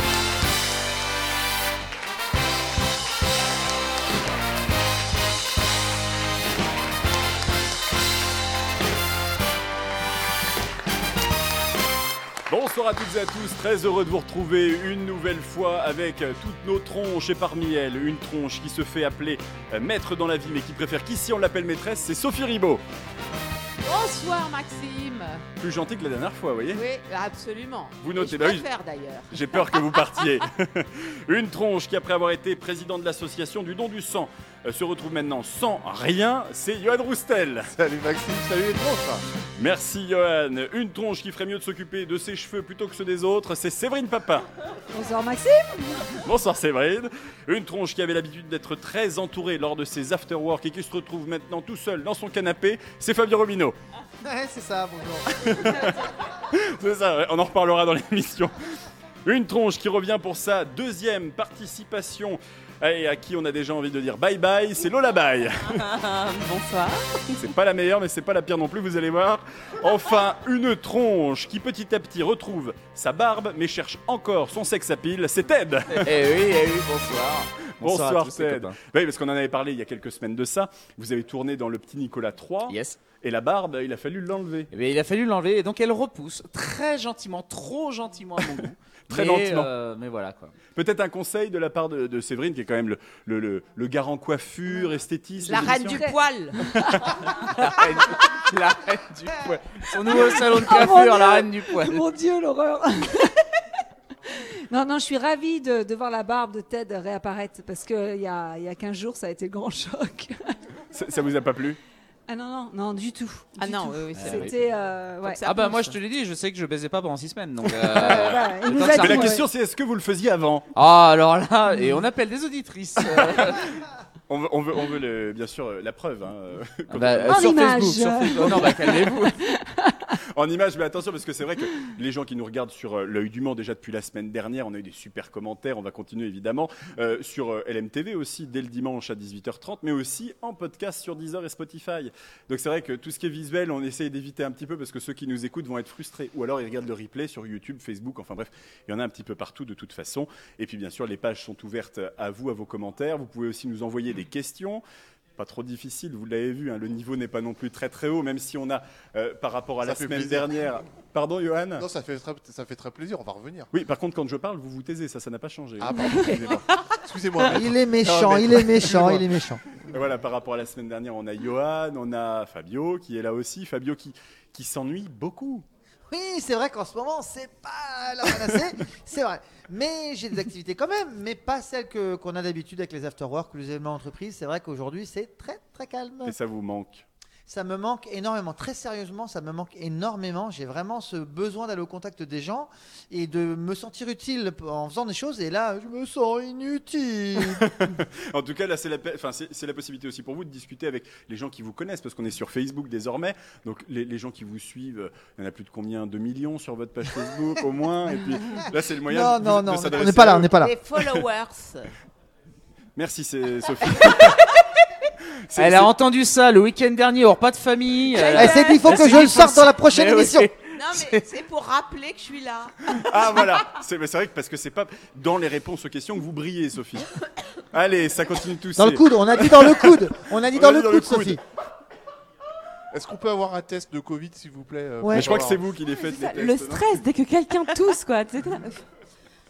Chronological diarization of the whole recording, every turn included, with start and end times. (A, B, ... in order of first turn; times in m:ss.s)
0:12.5-0:22.8 A
0:23.8-0:25.4 B
0:25.6-0:26.8 A
0:26.7-0:29.8 B
0:28.0-0:28.6 A
0:29.3-0:37.7 A
0:37.7-0:39.2 C
0:39.6-0:44.5 A
0:44.9-0:46.1 D
0:46.1-0:53.8 A
0:54.2-0:55.9 E
0:55.3-0:58.6 A
0:59.2-1:05.8 A
1:05.8-1:07.5 F
1:07.4-1:16.1 A
1:15.9-1:18.8 G
1:17.8-1:24.7 A
1:22.7-1:23.0 G
1:24.7-1:30.5 G
1:29.1-1:29.7 A
1:30.7-1:36.0 A
1:35.4-1:36.7 B
1:35.9-1:38.2 D
1:36.7-1:37.2 A
1:37.4-1:42.0 G
1:40.1-1:43.5 D
1:44.3-1:50.5 D
1:50.9-1:51.8 A
1:52.3-1:55.4 D
1:53.6-1:54.6 B
1:54.1-1:54.5 G
1:55.2-1:56.0 B
1:55.4-1:59.4 G
1:57.8-2:00.7 A
1:58.0-1:59.4 D
2:00.8-2:03.8 G
2:04.3-2:07.7 A
2:06.9-2:09.4 G
2:07.2-2:10.1 D
2:08.3-2:08.9 A
2:10.3-2:34.8 A
2:35.4-2:41.9 A
2:39.8-2:40.5 C
2:41.8-2:43.7 C
2:43.7-2:46.1 A
2:45.8-2:49.4 C
2:46.0-2:46.6 D
2:47.5-2:49.6 E
2:49.9-2:55.6 A
2:56.1-3:06.3 E
3:06.2-3:07.0 A
3:07.5-3:17.7 E
3:17.4-3:31.0 A
3:28.5-3:30.7 E
3:30.6-3:31.9 B
3:33.0-3:34.5 A
3:35.3-3:35.9 A
3:35.5-3:41.2 G
3:38.1-3:38.8 B
3:38.3-3:40.5 E
3:40.7-3:42.8 B
3:42.8-3:47.1 A
3:47.7-3:50.0 A
3:48.8-3:51.4 E
3:50.5-3:51.4 A
3:52.9-3:55.7 C
3:55.0-3:55.3 E
3:55.1-3:57.0 A
3:55.8-3:58.8 F